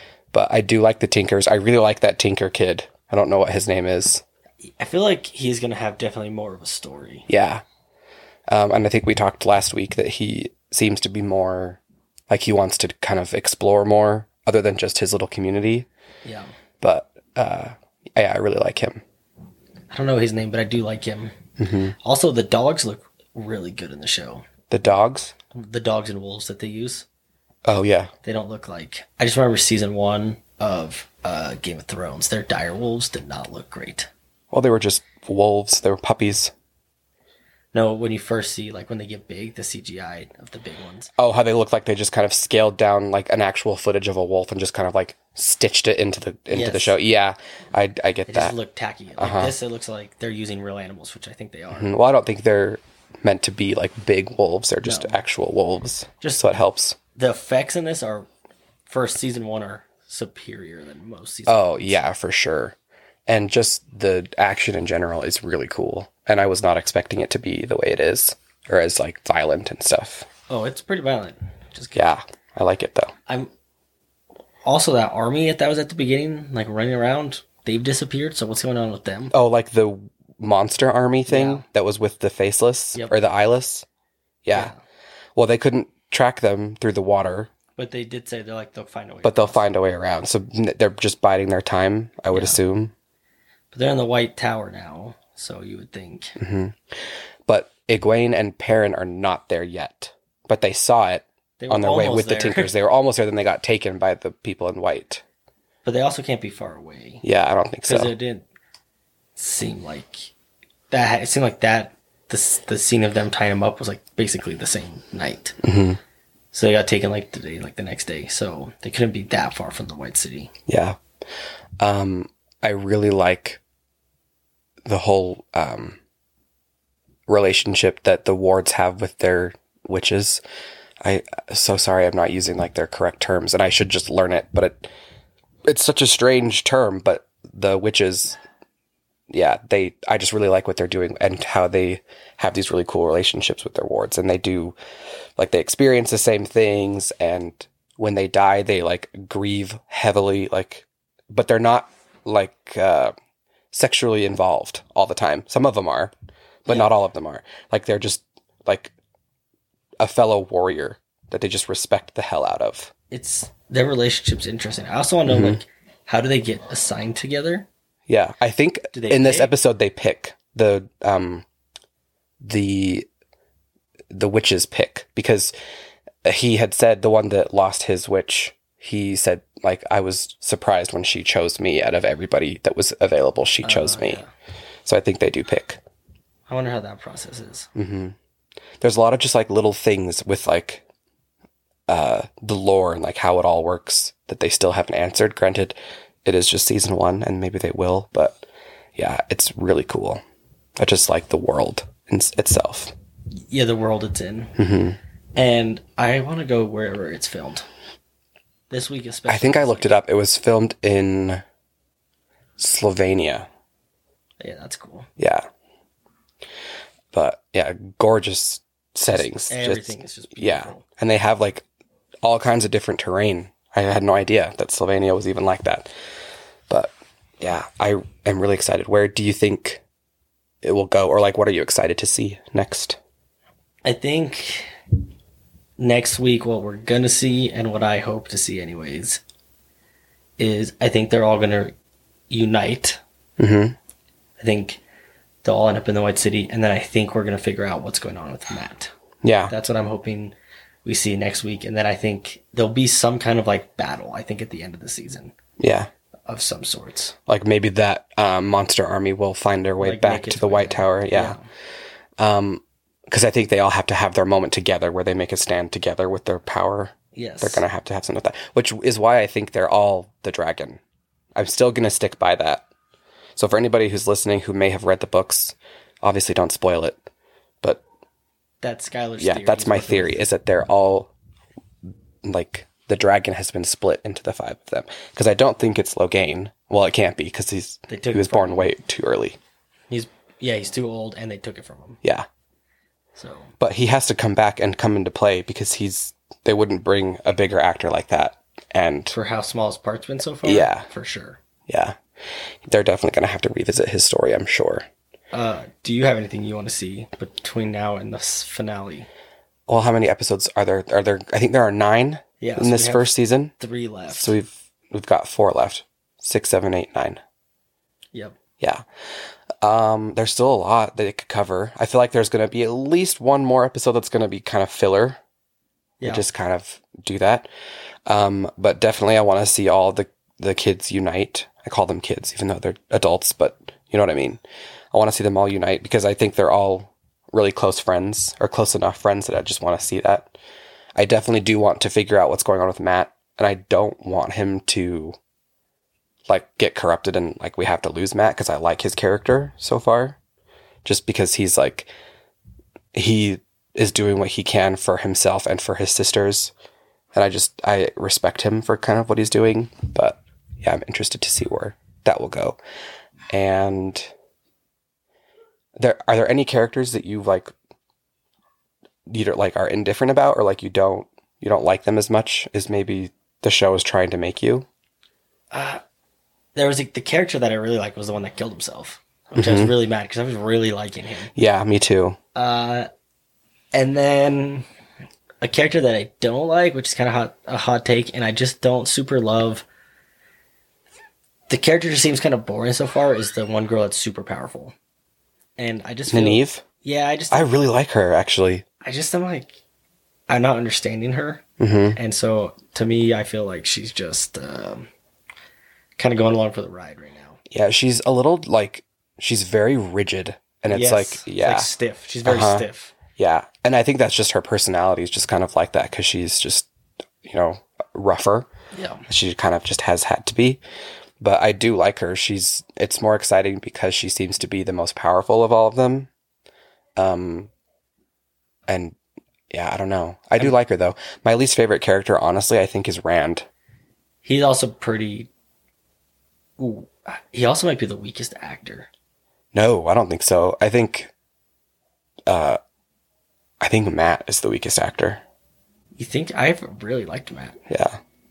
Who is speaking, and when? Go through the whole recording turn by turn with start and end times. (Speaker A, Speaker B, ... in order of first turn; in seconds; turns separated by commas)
Speaker A: 0.3-4.2, Speaker B: 4.6-7.3, Speaker A: 7.3-7.6, Speaker A: 8.5-15.9, Speaker B: 16.2-16.5, Speaker A: 16.8-19.0, Speaker B: 19.9-21.3, Speaker A: 21.6-21.9, Speaker B: 22.0-24.4, Speaker A: 24.7-25.3, Speaker B: 25.5-27.1, Speaker A: 27.6-28.1, Speaker B: 28.2-34.1, Speaker A: 34.5-36.5, Speaker B: 37.7-41.1, Speaker A: 41.2-48.5, Speaker B: 46.5-47.0, Speaker B: 48.3-51.9, Speaker A: 49.2-49.5, Speaker A: 51.7-57.0, Speaker B: 54.8-55.2, Speaker B: 57.1-58.3, Speaker B: 58.9-62.0, Speaker A: 61.5-62.8, Speaker A: 63.3-70.3, Speaker B: 70.5-72.1, Speaker A: 71.9-73.1, Speaker B: 74.6-79.3, Speaker A: 79.3-83.8, Speaker B: 81.3-81.6, Speaker A: 84.4-84.7, Speaker B: 84.5-84.8, Speaker A: 85.3-87.5, Speaker B: 87.8-89.7, Speaker A: 89.2-92.9, Speaker B: 92.3-92.6, Speaker B: 93.7-96.4, Speaker A: 96.4-96.8, Speaker A: 97.5-105.2, Speaker B: 101.6-102.7, Speaker B: 105.8-107.2, Speaker A: 107.2-108.1, Speaker B: 107.8-108.5, Speaker B: 109.3-110.3, Speaker B: 110.9-115.6, Speaker A: 115.6-116.0, Speaker B: 116.5-120.5, Speaker A: 120.7-121.0, Speaker A: 121.8-123.6, Speaker A: 124.8-126.0, Speaker A: 127.3-130.4, Speaker A: 131.0-134.9, Speaker A: 135.7-138.4, Speaker A: 139.3-144.8, Speaker A: 145.4-153.1, Speaker A: 153.7-156.1, Speaker A: 156.6-158.9, Speaker A: 160.0-162.9, Speaker B: 163.1-167.7, Speaker A: 165.3-165.6, Speaker A: 168.1-171.4, Speaker B: 168.9-169.5, Speaker A: 172.4-173.1, Speaker A: 174.1-175.5, Speaker A: 176.2-184.2, Speaker B: 183.6-184.3, Speaker A: 184.8-185.8, Speaker B: 186.5-187.7, Speaker A: 187.7-188.2, Speaker A: 188.8-190.8, Speaker A: 191.9-200.2, Speaker A: 200.8-202.9, Speaker B: 203.4-204.5, Speaker A: 204.6-205.0, Speaker B: 205.3-207.7, Speaker B: 208.7-209.9, Speaker A: 209.3-211.4, Speaker A: 212.6-213.5, Speaker B: 214.4-215.1, Speaker A: 215.2-215.5, Speaker A: 217.1-221.6, Speaker B: 219.1-220.8, Speaker A: 222.2-225.9, Speaker A: 226.7-229.8, Speaker A: 230.6-233.0, Speaker B: 233.8-234.7, Speaker B: 235.8-239.2, Speaker B: 240.4-241.7, Speaker B: 242.3-243.0, Speaker A: 243.4-243.8, Speaker B: 244.4-244.8, Speaker B: 245.4-248.9, Speaker A: 249.2-249.5, Speaker B: 249.5-255.3, Speaker A: 255.6-255.9, Speaker B: 256.3-257.1, Speaker A: 257.3-261.4, Speaker B: 259.8-261.4, Speaker A: 262.2-270.8, Speaker B: 267.1-267.6, Speaker A: 271.3-272.6, Speaker A: 273.4-277.0, Speaker B: 278.6-280.3, Speaker A: 279.2-281.1, Speaker A: 282.2-289.4, Speaker B: 287.9-288.7, Speaker B: 289.9-292.0, Speaker B: 293.1-293.5, Speaker A: 293.6-299.1, Speaker B: 299.1-301.4, Speaker A: 300.4-300.9, Speaker A: 301.7-302.0, Speaker A: 302.6-304.9, Speaker B: 305.3-309.1, Speaker A: 309.7-313.5, Speaker B: 312.4-314.3, Speaker A: 314.1-317.2, Speaker A: 319.6-325.2, Speaker B: 326.0-326.2, Speaker A: 326.0-327.5, Speaker A: 328.1-334.4, Speaker A: 334.9-340.3, Speaker A: 340.9-345.1, Speaker A: 346.3-350.2, Speaker A: 350.8-351.9, Speaker A: 352.9-356.5, Speaker A: 357.1-362.6, Speaker A: 363.3-364.1, Speaker A: 365.8-367.5, Speaker A: 369.1-374.7, Speaker B: 375.5-375.8, Speaker B: 376.5-381.3, Speaker A: 379.3-379.7, Speaker A: 381.3-382.2, Speaker B: 382.3-382.9, Speaker B: 383.7-384.6, Speaker B: 385.4-389.6, Speaker B: 391.5-394.7, Speaker B: 395.6-397.5, Speaker A: 396.1-396.6, Speaker A: 397.3-398.6, Speaker B: 398.8-399.6, Speaker B: 400.3-401.4, Speaker A: 401.6-402.0, Speaker B: 401.9-404.9, Speaker B: 406.0-407.4, Speaker A: 407.5-411.7, Speaker B: 410.7-412.9, Speaker A: 412.2-416.7, Speaker A: 417.2-418.5, Speaker B: 418.7-419.0, Speaker A: 419.1-420.6, Speaker A: 421.2-426.1, Speaker A: 427.0-427.5, Speaker A: 428.7-428.9, Speaker A: 429.5-433.4, Speaker B: 434.2-435.3, Speaker B: 436.6-438.9, Speaker A: 439.5-441.1, Speaker A: 442.3-442.6, Speaker A: 443.6-445.2, Speaker B: 446.0-447.6, Speaker A: 447.7-448.0